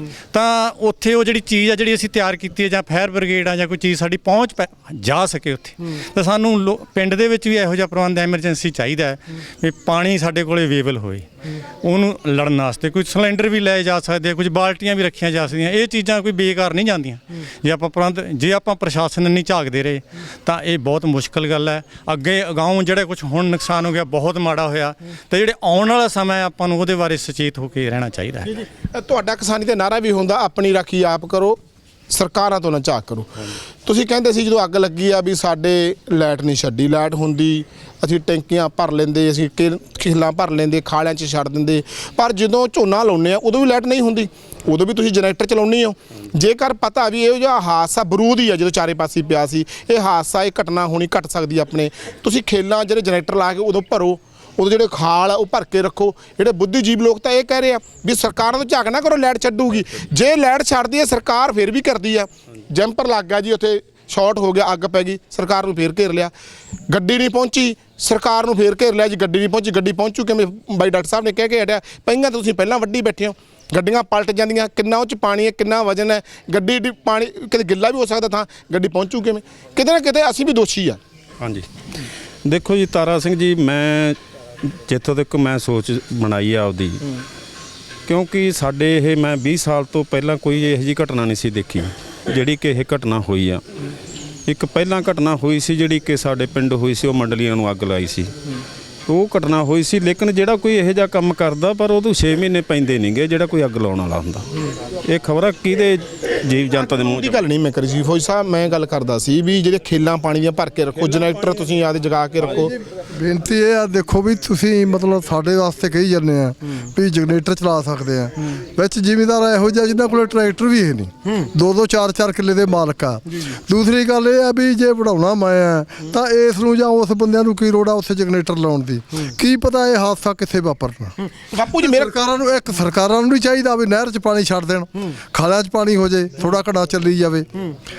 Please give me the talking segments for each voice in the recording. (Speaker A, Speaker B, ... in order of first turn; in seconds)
Speaker A: 0.3-11.3, 11.8-28.6
Speaker B: 28.6-31.6, 32.1-66.3, 66.9-81.0, 106.9-112.7, 131.4-132.1
Speaker C: 81.4-81.7, 82.4-87.0, 88.1-93.6, 94.5-98.3, 99.1-104.4, 105.1-107.4
Speaker D: 112.9-131.2, 131.8-137.5